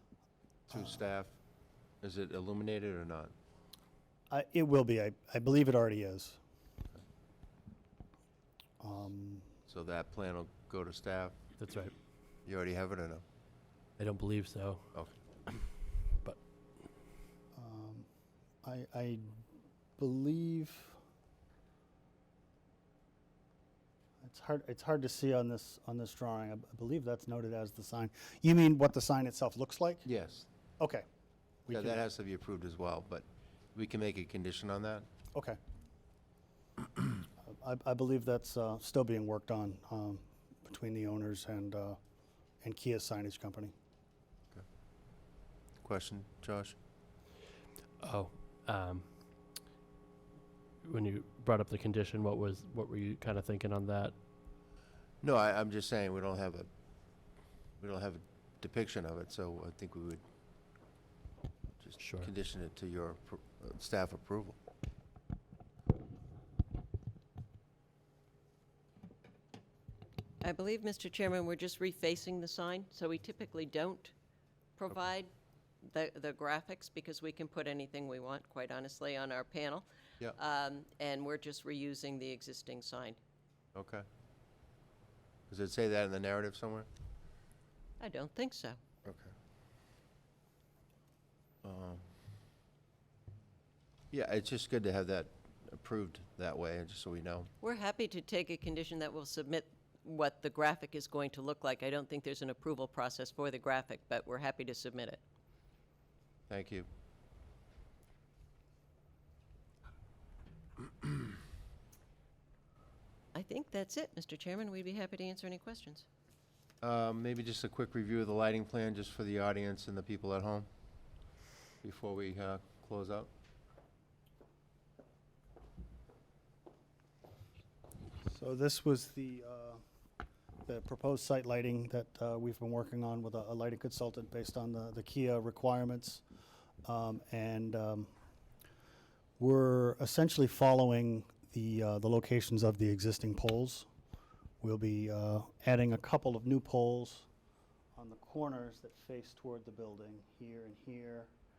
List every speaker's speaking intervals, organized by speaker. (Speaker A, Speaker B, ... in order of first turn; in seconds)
Speaker A: 0.7-1.4, 2.0-3.3, 9.7-11.4, 12.4-13.2, 30.1-30.5, 31.7-35.1, 45.8-46.8, 55.2-56.7, 57.8-60.2, 61.8-64.6, 83.8-84.0, 85.5-86.9, 89.0-89.3, 91.6-92.0, 94.1-97.5, 106.5-106.9, 116.8-120.7, 121.8-123.3
Speaker B: 4.3-6.4, 8.8-9.5, 17.6-18.1, 18.6-19.4, 20.0-21.0, 24.2-30.1, 30.8-31.1, 31.7-32.0, 37.4-42.0, 42.6-43.7, 128.3-129.8, 130.7-136.2, 136.8-138.1, 139.4-143.9, 144.6-147.3, 147.9-151.3
Speaker C: 11.6-11.9, 14.0-14.8, 48.0-49.1, 50.8-54.1, 62.0-62.3
Speaker D: 70.4-74.1, 74.8-75.3, 75.8-83.2, 88.0-88.8, 97.6-105.2, 113.3-116.1